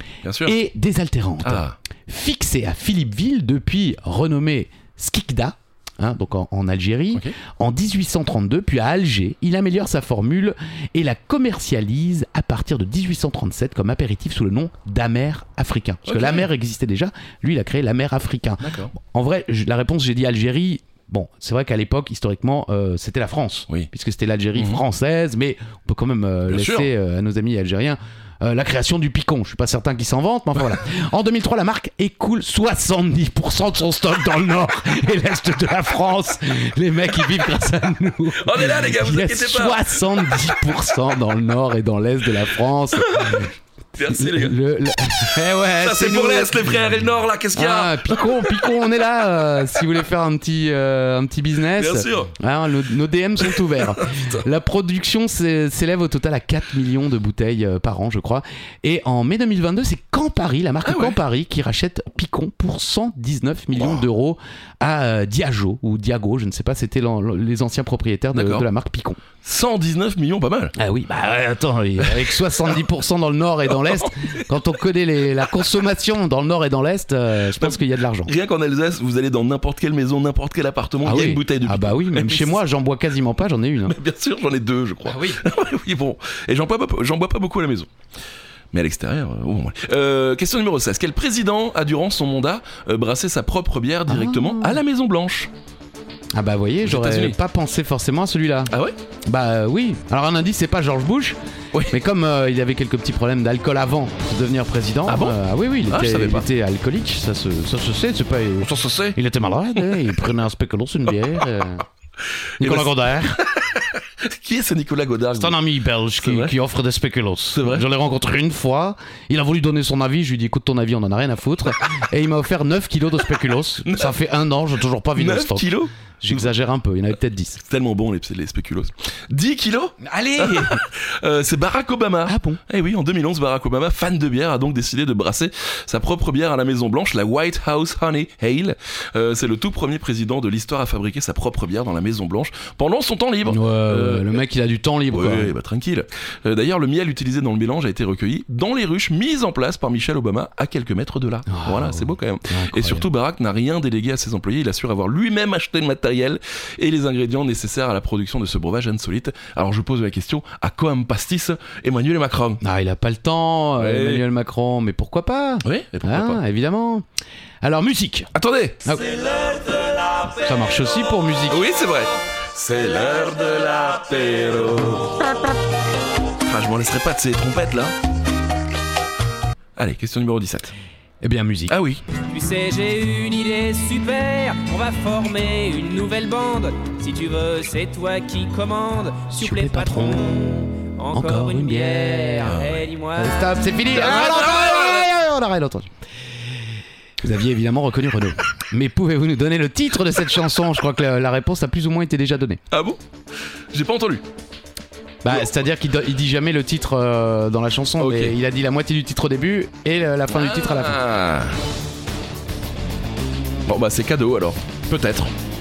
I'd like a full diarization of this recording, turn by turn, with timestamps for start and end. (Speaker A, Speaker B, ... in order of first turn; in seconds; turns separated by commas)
Speaker A: 0.2-0.6, Speaker B: 0.4-43.5, Speaker A: 1.4-1.8, Speaker A: 16.1-16.5, Speaker A: 18.6-18.9, Speaker A: 24.6-24.8, Speaker A: 26.5-26.9, Speaker A: 38.4-40.5, Speaker A: 43.0-44.6, Speaker B: 44.0-46.9, Speaker A: 45.6-48.8, Speaker B: 47.5-69.2, Speaker A: 51.7-52.3, Speaker A: 53.5-54.5, Speaker A: 60.8-61.2, Speaker A: 68.3-68.7, Speaker A: 69.4-70.8, Speaker B: 70.8-78.3, Speaker A: 74.0-74.4, Speaker A: 77.6-82.6, Speaker B: 81.0-84.0, Speaker A: 83.8-87.9, Speaker B: 85.0-85.4, Speaker A: 88.7-95.5, Speaker B: 94.1-94.8, Speaker B: 96.3-98.7, Speaker A: 96.8-97.4, Speaker A: 98.7-98.9, Speaker B: 99.2-101.4, Speaker B: 101.9-111.8, Speaker A: 105.0-106.5, Speaker A: 108.6-109.2, Speaker A: 112.6-115.6, Speaker B: 112.6-113.4, Speaker B: 115.3-125.7, Speaker A: 116.2-116.5, Speaker A: 117.5-117.8, Speaker A: 123.8-124.2, Speaker A: 125.2-126.4, Speaker B: 126.2-127.6, Speaker A: 127.6-144.4, Speaker B: 130.0-130.8, Speaker B: 132.3-132.6, Speaker B: 143.4-145.5, Speaker A: 145.1-162.6, Speaker B: 151.5-153.1, Speaker B: 162.6-167.1, Speaker A: 163.8-164.2, Speaker A: 165.6-166.4, Speaker B: 167.6-168.3, Speaker A: 168.3-168.9, Speaker B: 168.8-169.1, Speaker B: 170.3-171.6, Speaker A: 171.5-175.2, Speaker A: 176.4-177.9, Speaker A: 179.8-180.7, Speaker B: 181.2-181.8, Speaker A: 181.7-182.0, Speaker C: 182.2-193.5, Speaker B: 189.3-190.4, Speaker B: 191.1-192.6, Speaker A: 192.4-192.8, Speaker B: 193.1-195.9, Speaker A: 193.9-195.1, Speaker B: 197.2-202.6, Speaker A: 202.7-203.0, Speaker A: 203.7-204.2, Speaker B: 205.2-211.0, Speaker A: 208.0-208.3, Speaker A: 210.3-211.6, Speaker A: 213.7-215.3